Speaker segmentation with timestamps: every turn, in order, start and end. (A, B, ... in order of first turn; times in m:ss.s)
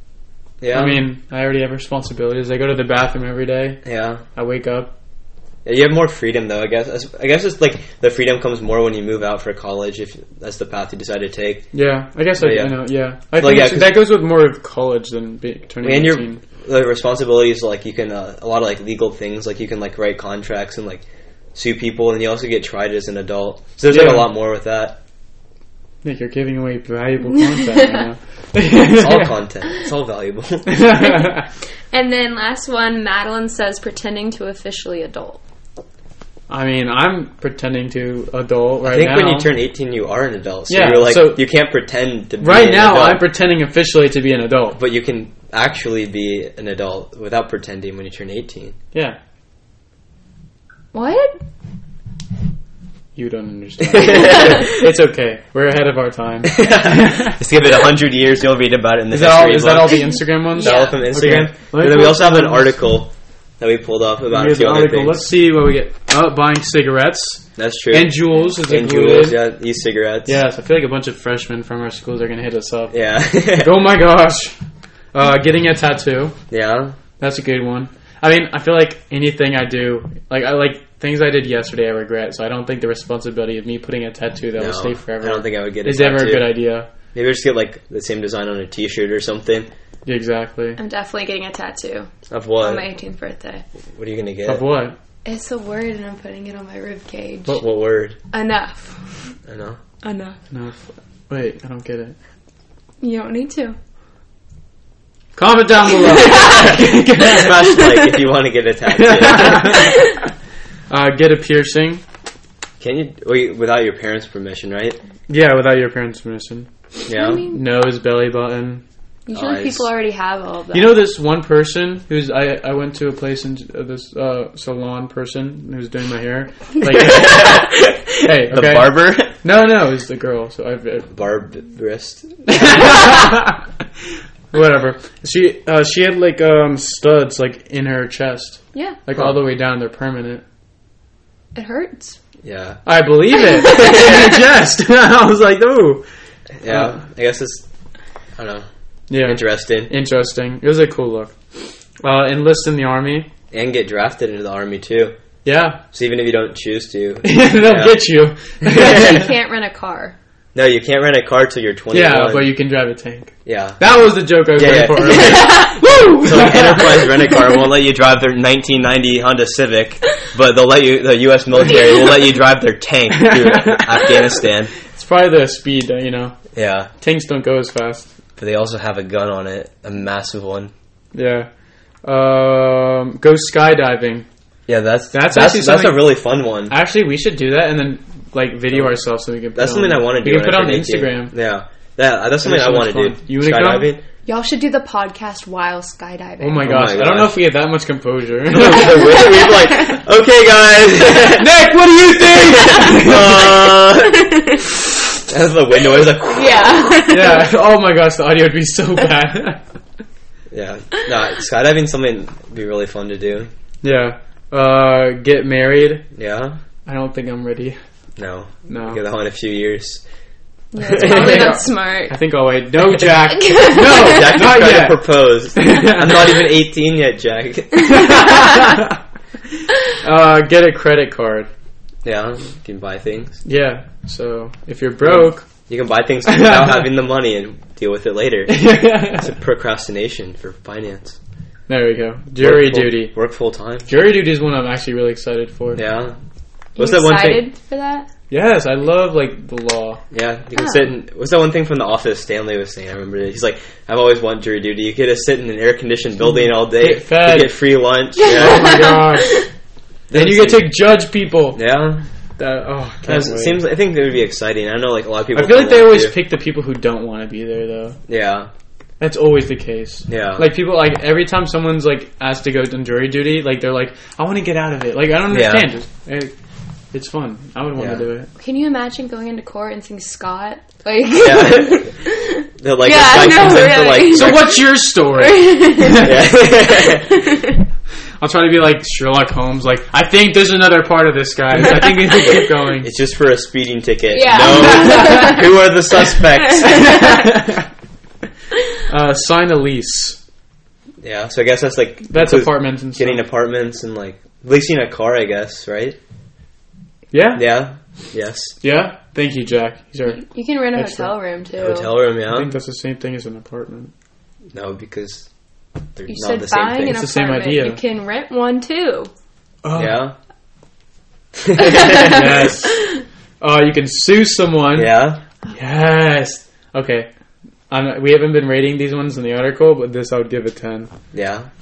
0:00.6-0:01.1 A
0:00.7-0:03.8 B
0:03.8-0:04.2 A
0:04.4-0:04.9 B
0:05.6-0:11.7 A
0:11.7-0:16.4 B
0:12.4-0:14.0 A
0:15.8-0:21.0 A
0:21.5-0:25.0 A
0:23.9-0:24.3 B
0:26.0-0:29.3 B
0:28.8-0:30.8 A
0:30.6-0:31.5 B
0:31.9-0:35.4 C
0:36.5-0:39.5 B
0:38.8-0:43.3 A
0:40.7-0:41.4 B
0:42.4-0:44.8 B
0:44.7-0:48.8 A
0:48.9-0:49.2 B
0:50.9-0:51.4 C
0:53.2-0:57.4 B
0:53.8-0:54.8 A
0:56.5-1:05.2 A
0:59.1-1:02.8 B
1:00.4-1:01.0 C
1:04.3-1:09.4 B
1:07.6-1:10.4 A
1:10.2-1:12.9 B
1:12.9-1:13.8 A
1:13.6-1:14.5 B
1:15.1-1:16.3 B
1:16.5-1:17.0 A
1:17.2-1:26.9 B
1:24.6-1:26.6 A
1:27.1-1:29.7 A
1:30.0-1:30.8 B
1:30.8-1:33.6 C
1:32.3-1:32.8 A
1:34.0-1:34.6 A
1:34.4-1:35.0 B
1:35.2-1:37.6 C
1:37.5-1:38.2 A
1:38.3-1:39.3 C
1:39.5-1:39.8 A
1:40.0-1:40.4 C
1:40.5-1:42.1 B
1:43.0-1:43.8 C
1:45.4-1:47.6 B
1:46.0-1:46.8 C
1:47.2-1:49.9 A
1:47.7-1:48.2 C
1:48.9-1:50.0 B
1:49.6-1:50.1 C
1:50.9-1:52.0 B
1:52.8-1:55.0 A
1:55.3-1:56.7 B
1:57.1-1:57.4 A
1:57.1-1:57.6 C
1:57.4-1:58.8 B
1:59.2-2:01.0 C
1:59.3-1:59.8 A
2:00.7-2:11.1 B
2:06.9-2:09.3 A
2:11.1-2:13.2 A
2:12.5-2:13.6 B
2:14.5-2:20.4 B
2:18.7-2:19.0 C
2:21.5-2:22.2 C
2:22.4-2:22.8 A
2:22.8-2:26.0 B
2:23.7-2:24.2 C
2:26.6-2:27.6 A
2:26.6-2:27.0 B
2:28.4-2:28.7 A
2:29.1-2:31.3 B
2:29.2-2:29.9 A
2:32.0-2:33.3 B
2:33.5-2:35.1 A
2:35.4-2:35.8 B
2:35.9-2:38.0 A
2:37.2-2:39.3 B
2:38.6-2:39.3 A
2:38.7-2:40.2 C
2:40.5-2:42.5 A
2:41.9-2:47.1 B
2:43.4-2:43.8 A
2:44.4-2:54.7 A
2:45.2-2:45.7 C
2:53.1-2:56.4 B
2:56.5-2:56.9 A
2:57.0-2:58.1 B
2:58.4-3:00.7 A
3:01.1-3:01.5 B
3:02.0-3:04.2 B
3:04.7-3:06.7 A
3:05.1-3:06.1 B
3:06.7-3:11.3 B
3:09.5-3:14.0 A
3:12.4-3:13.9 B
3:14.2-3:16.8 C
3:16.4-3:19.2 B
3:16.6-3:17.4 A
3:18.5-3:21.5 A
3:18.8-3:20.0 C
3:21.3-3:23.5 B
3:22.2-3:24.4 A
3:22.9-3:24.6 C
3:25.2-3:27.0 A
3:26.0-3:27.5 C
3:27.1-3:29.6 B
3:30.5-3:33.5 A
3:33.8-3:36.0 B
3:36.1-3:36.6 A
3:36.8-3:37.8 B
3:38.2-3:40.0 A
3:38.7-3:39.0 B
3:40.7-3:42.2 C
3:40.8-3:41.6 A
3:41.0-3:46.4 B
3:43.4-3:44.2 C
3:43.8-3:48.1 A
3:47.9-3:49.0 B
3:49.9-3:51.5 B
3:52.0-3:53.4 A
3:53.4-3:55.5 B
3:55.0-4:01.2 A
3:56.2-3:56.9 B
3:58.5-3:59.3 B
4:01.7-4:03.1 B
4:02.4-4:03.9 A
4:03.8-4:05.8 B
4:05.7-4:06.2 A
4:06.8-4:08.1 C
4:06.8-4:07.4 A
4:08.3-4:10.0 B
4:10.1-4:18.8 A
4:16.2-4:17.6 B
4:18.2-4:19.5 C
4:18.2-4:19.4 B
4:20.1-4:20.8 A
4:20.1-4:21.6 B
4:21.5-4:22.0 A
4:22.4-4:23.6 B
4:23.0-4:26.2 A
4:25.3-4:28.0 B
4:28.1-4:28.5 A
4:29.0-4:36.3 B
4:30.1-4:30.5 A
4:35.3-4:35.7 A
4:36.9-4:38.3 B
4:37.8-4:38.0 A
4:38.4-4:47.6 C
4:41.2-4:41.9 A
4:42.6-4:44.5 A
4:44.1-4:46.2 B
4:45.9-4:47.2 A
4:48.2-4:52.9 B
4:52.3-4:56.9 A
4:54.1-4:57.3 C
4:54.9-4:55.3 B
4:56.6-4:57.6 B
4:58.9-5:00.2 B
5:01.0-5:06.0 A
5:02.1-5:03.2 B
5:07.1-5:07.5 B
5:07.3-5:08.5 A
5:08.6-5:11.1 B
5:10.1-5:11.9 C
5:11.6-5:12.5 A
5:12.3-5:13.9 B
5:14.5-5:15.3 A
5:15.9-5:17.0 A
5:16.1-5:19.1 C
5:16.9-5:17.8 B
5:19.6-5:20.0 B
5:19.7-5:20.1 A
5:21.4-5:22.2 A
5:21.6-5:23.0 C
5:22.0-5:22.8 B
5:23.4-5:24.9 B
5:24.7-5:25.2 A
5:25.5-5:27.1 B
5:27.7-5:30.9 B
5:31.1-5:31.5 A